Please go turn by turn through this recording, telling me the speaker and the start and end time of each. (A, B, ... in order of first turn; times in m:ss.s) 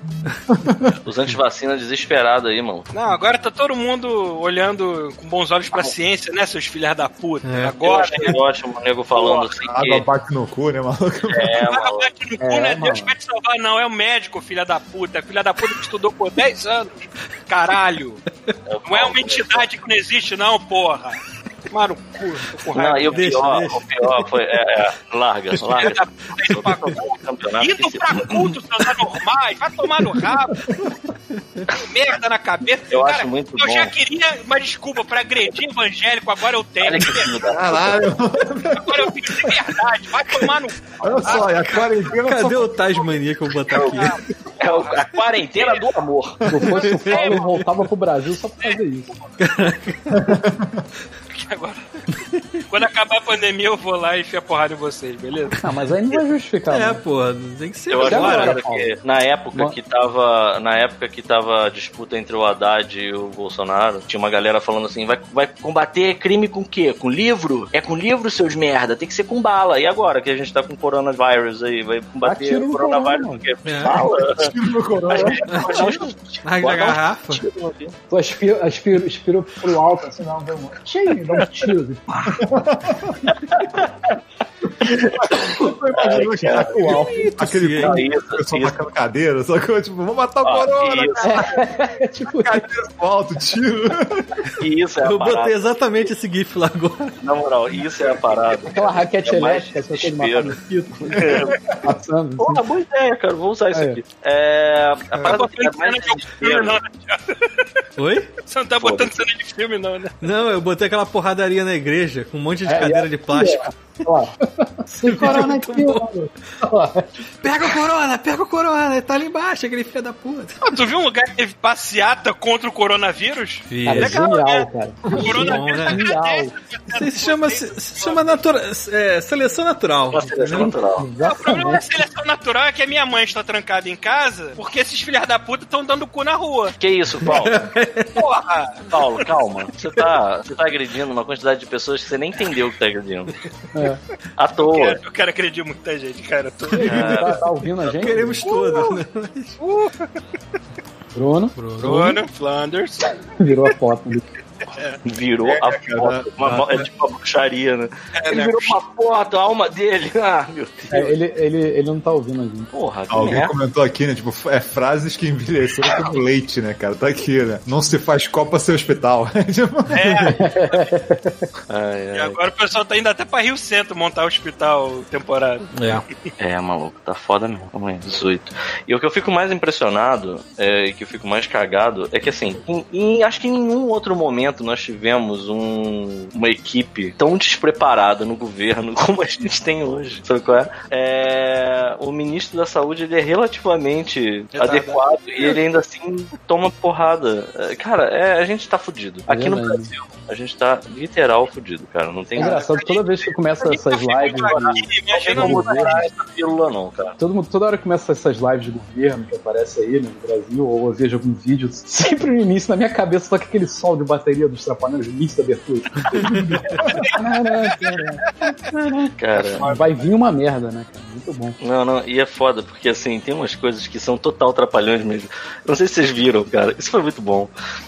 0:00.5-0:01.0 A
0:01.0-0:02.9 B
0:02.9-0:08.4 C
0:07.4-0:07.8 D
0:07.8-0:10.1 B
0:09.2-0:09.4 C
0:09.6-0:11.6 A
0:11.3-0:12.1 B
0:11.7-0:18.2 C
0:12.4-0:13.1 E
0:18.7-0:19.7 B
0:18.8-0:23.3 C
0:22.7-0:28.5 B
0:23.1-0:23.8 D
0:25.7-0:30.6 C
0:31.8-0:37.5 C
0:32.9-0:34.0 B
0:36.8-0:38.0 B
0:37.5-0:39.5 A
0:38.7-0:42.2 C
0:41.0-0:42.8 A
0:42.2-0:44.1 D
0:42.9-0:43.1 C
0:43.7-0:45.9 C
0:43.7-0:46.6 B
0:46.5-0:49.4 E
0:46.6-0:47.5 C
0:47.0-0:47.6 D
0:49.4-0:50.2 D
0:50.1-0:50.8 A
0:51.3-0:51.8 C
0:52.7-0:55.6 C
0:55.6-0:57.0 E
0:56.7-0:58.6 D
0:57.9-1:14.5 B
0:58.0-0:58.9 E
1:12.2-1:13.4 E
1:13.6-1:14.0 D
1:14.3-1:15.9 A
1:15.1-1:17.9 B
1:15.5-1:17.4 D
1:18.1-1:22.4 E
1:22.3-1:23.4 A
1:24.8-1:31.7 A
1:24.8-1:25.4 B
1:25.9-1:26.8 B
1:26.8-1:27.1 E
1:26.8-1:28.0 D
1:27.8-1:28.8 B
1:30.4-1:31.4 B
1:31.2-1:32.7 E
1:32.3-1:34.4 A
1:34.6-1:35.6 B
1:35.0-1:37.2 D
1:37.2-1:41.6 B
1:38.7-1:42.6 E
1:42.4-1:46.8 B
1:43.7-1:44.0 E
1:45.2-1:47.7 C
1:48.0-1:48.3 D
1:48.4-1:50.2 C
1:48.8-1:49.1 B
1:50.2-1:53.7 D
1:52.7-1:57.1 E
1:55.0-1:56.0 D
1:57.4-2:00.6 D
2:00.6-2:08.4 C
2:03.7-2:04.2 D
2:03.8-2:06.5 E
2:05.2-2:06.1 D
2:06.9-2:10.7 D
2:10.1-2:11.1 B
2:10.5-2:11.8 E
2:11.2-2:16.8 C
2:16.8-2:17.7 B
2:17.3-2:18.2 D
2:18.2-2:19.3 C
2:18.9-2:23.3 B
2:24.4-2:25.0 B
2:24.6-2:27.0 C
2:26.7-2:28.5 E
2:26.8-2:28.2 B
2:28.0-2:29.6 D
2:28.4-2:29.0 C
2:29.6-2:30.1 C
2:31.2-2:32.1 E
2:31.6-2:32.1 D
2:31.8-2:33.7 C
2:33.4-2:34.2 E
2:35.0-2:41.1 B
2:35.4-2:36.9 A
2:38.2-2:38.8 C
2:40.9-2:42.7 E
2:42.7-2:43.6 B
2:43.1-2:50.1 A
2:49.9-2:50.9 C
2:50.3-2:51.4 E
2:51.7-2:52.4 B
2:52.1-2:55.7 C
2:55.8-2:56.0 D
2:56.4-3:22.7 B
3:14.5-3:15.6 C
3:19.3-3:19.9 E
3:22.4-3:24.8 E
3:22.4-3:26.1 C
3:24.2-3:27.2 B
3:25.3-3:26.0 E
3:27.2-3:36.6 E
3:36.7-3:37.1 C
3:37.1-3:41.6 E
3:39.2-3:39.7 B
3:39.3-3:40.1 C
3:41.6-3:47.5 B